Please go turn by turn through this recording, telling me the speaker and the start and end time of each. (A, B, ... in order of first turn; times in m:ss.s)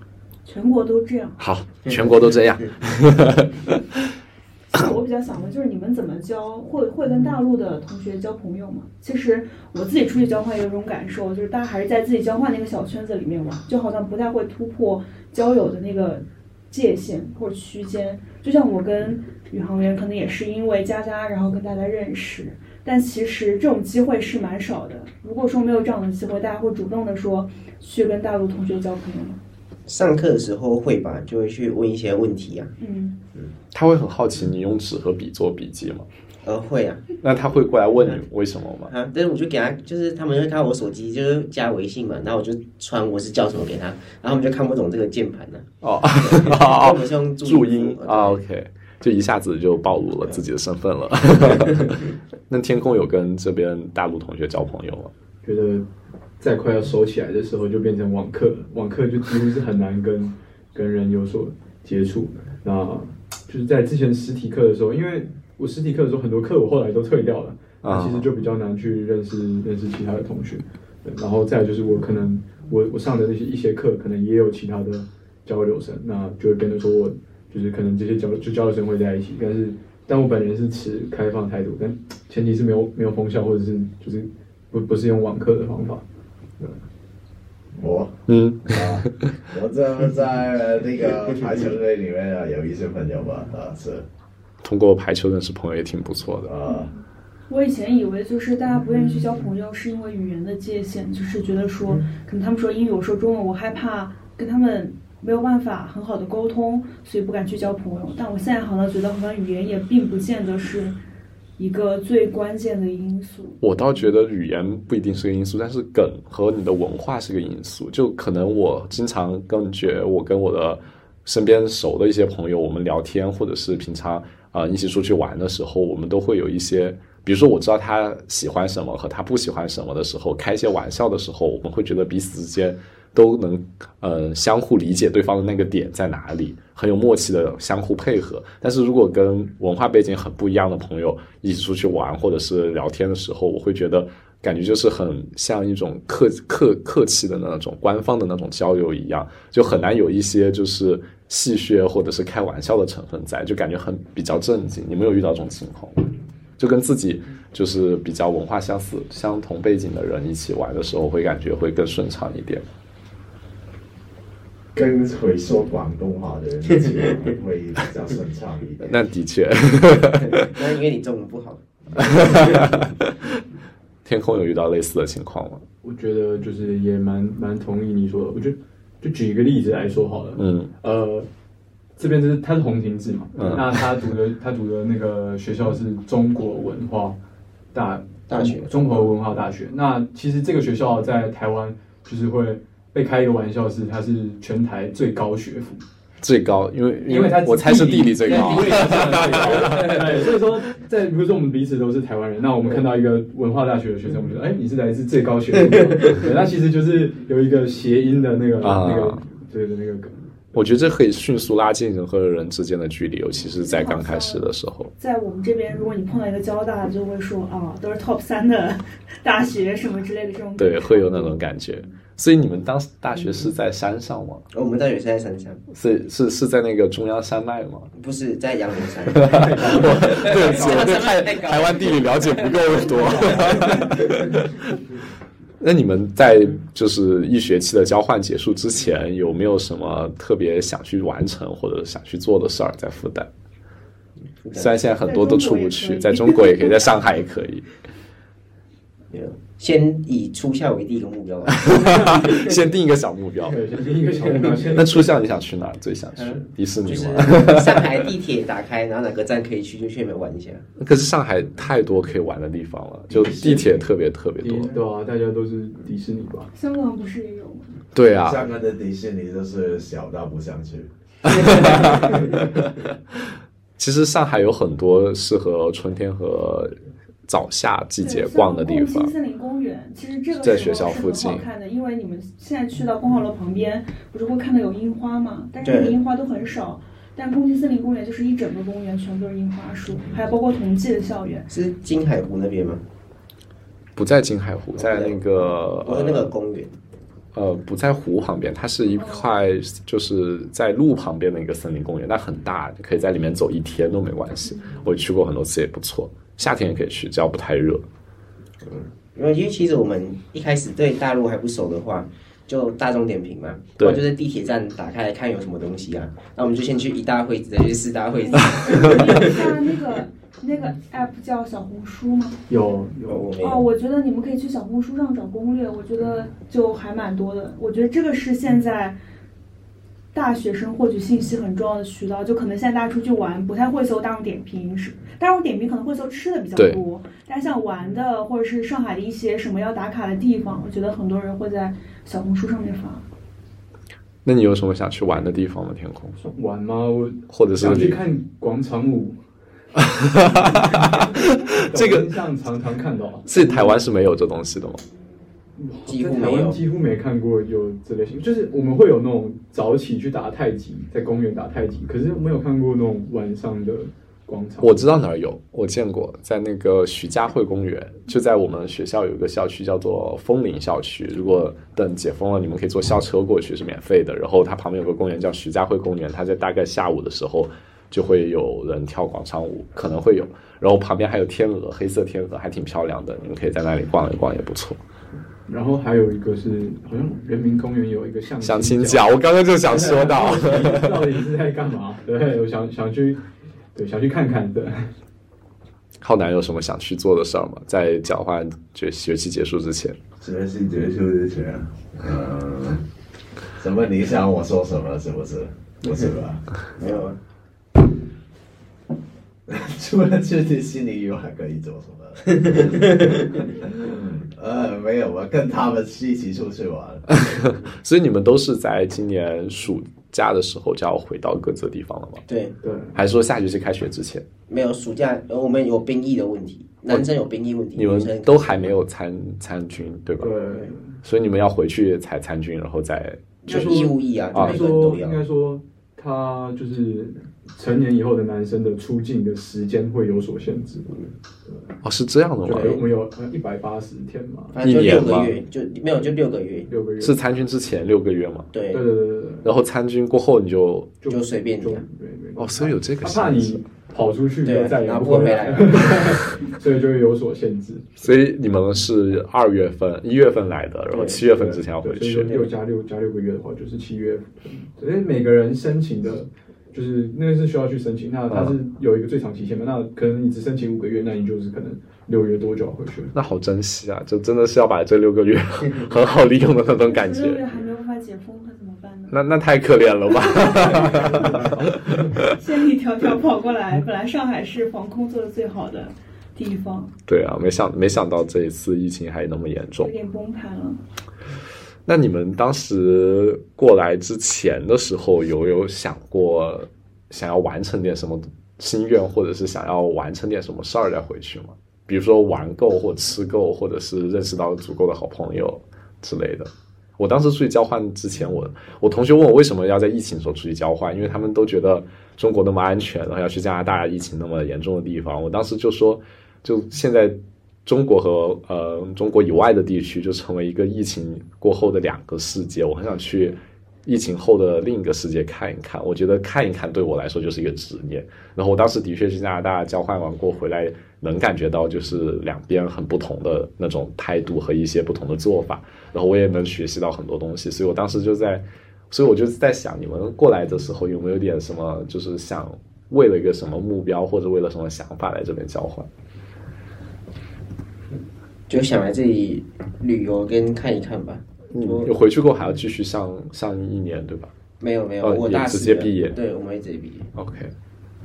0:00.4-0:01.4 A
0:01.4-0:03.8 B
0:04.7-0:29.4 A
0:29.9-0:32.7 C
0:32.8-0:33.2 A
0:33.7-0:36.1 B
0:36.4-0:37.1 C
0:37.2-0:38.9 B
0:38.0-0:38.2 C
0:38.9-0:48.4 C
0:45.8-0:55.1 B
0:55.4-0:55.9 D
0:56.4-1:26.0 D
1:07.8-1:08.3 B
1:27.7-1:28.2 E
1:28.3-1:29.1 B
1:28.7-1:34.1 E
1:34.6-1:36.5 B
1:36.5-1:36.9 E
1:36.7-1:37.0 A
1:37.5-1:51.0 A
1:51.6-1:54.1 A
1:53.6-2:36.0 B
2:36.6-2:42.6 B
2:44.8-2:49.0 E
2:48.8-2:50.6 B
2:50.2-2:52.6 C
2:52.0-2:53.2 B
2:54.0-2:55.6 B
2:55.8-3:01.3 D
3:00.4-3:00.7 B
3:02.0-3:07.2 D
3:03.4-3:03.8 B
3:07.7-3:15.8 D
3:08.3-3:09.1 C
3:16.2-3:20.0 B
3:17.1-3:30.2 D
3:18.3-3:20.1 C
3:28.6-3:29.2 B
3:30.5-3:34.9 B
3:33.6-3:41.9 A
3:40.6-3:44.5 B
3:44.5-3:45.6 C
3:45.7-3:47.9 B
3:48.0-3:54.2 C
3:49.1-3:54.4 B
3:49.2-3:50.7 D
3:55.6-4:03.3 B
4:04.4-4:04.8 C
4:04.5-4:07.7 B
4:05.0-4:06.9 A
4:09.1-4:12.6 C
4:11.5-4:13.6 B
4:11.7-4:12.4 D
4:13.5-4:15.0 D
4:14.7-4:18.0 B
4:16.1-4:20.6 C
4:20.8-4:24.8 B
4:23.1-4:23.7 C
4:24.4-4:26.5 D
4:26.6-4:27.8 A
4:27.9-4:28.4 B
4:28.2-4:30.9 E
4:31.2-4:32.3 B
4:33.8-4:36.8 B
4:37.3-4:39.1 B
4:38.0-4:51.5 A
4:40.4-4:41.5 B
4:45.6-4:46.0 C
4:51.5-4:52.8 C
4:54.0-4:56.3 B
4:54.8-4:56.8 C
4:57.3-5:07.8 B
4:58.9-4:59.3 A
5:04.4-5:04.8 A
5:08.6-5:19.5 C
5:18.2-5:22.4 A
5:22.5-5:23.3 D
5:23.1-5:23.7 C
5:23.4-5:29.0 A
5:30.1-5:43.1 A
5:36.6-5:36.8 B
5:44.2-5:46.2 B
5:46.2-5:49.2 D
5:47.3-5:48.0 B
5:49.8-5:52.1 B
5:50.3-5:53.8 D
5:53.3-5:54.8 B
5:55.6-6:04.9 D
5:55.9-5:56.6 C
6:04.6-6:24.8 B
6:25.5-6:29.1 D
6:28.4-6:31.1 B
6:29.7-6:33.2 D
6:33.8-6:34.9 D
6:36.0-6:40.0 B
6:40.2-6:42.8 E
6:43.6-6:46.4 E
6:46.8-6:47.2 C
6:49.5-6:57.0 E
6:52.4-6:53.1 C
6:57.1-7:02.2 B
7:02.3-7:02.6 C
7:02.6-7:03.0 D
7:03.0-7:04.3 B
7:04.5-7:08.8 C
7:07.8-7:10.3 B
7:10.2-7:11.0 D
7:11.0-7:13.5 B
7:13.4-7:15.2 C
7:13.5-7:21.7 D
7:14.3-7:14.6 B
7:21.8-7:22.8 B
7:22.4-7:24.6 D
7:22.5-7:22.8 C
7:24.5-7:26.7 C
7:24.6-7:25.4 B
7:26.7-7:27.2 D
7:27.0-7:28.5 B
7:28.5-7:28.8 C
7:28.7-7:29.5 D
7:29.4-7:31.0 B
7:31.0-7:37.9 D
7:31.1-7:31.8 C
7:32.4-7:33.6 B
7:34.4-7:36.3 C
7:38.0-7:42.4 B
7:40.9-7:41.6 C
7:41.3-7:53.1 D
7:42.3-7:42.5 C
7:48.3-7:48.6 B
7:53.1-7:57.6 B
7:56.8-7:59.2 A
7:59.1-8:02.3 B
8:00.1-8:01.2 A
8:01.0-8:02.1 D
8:02.3-8:06.9 A
8:07.1-8:09.9 B
8:09.8-8:10.8 A
8:11.9-9:05.9 B
9:08.5-9:11.9 C
9:11.5-9:14.3 B
9:14.6-9:17.1 C
9:15.0-9:16.2 B
9:17.2-9:17.5 B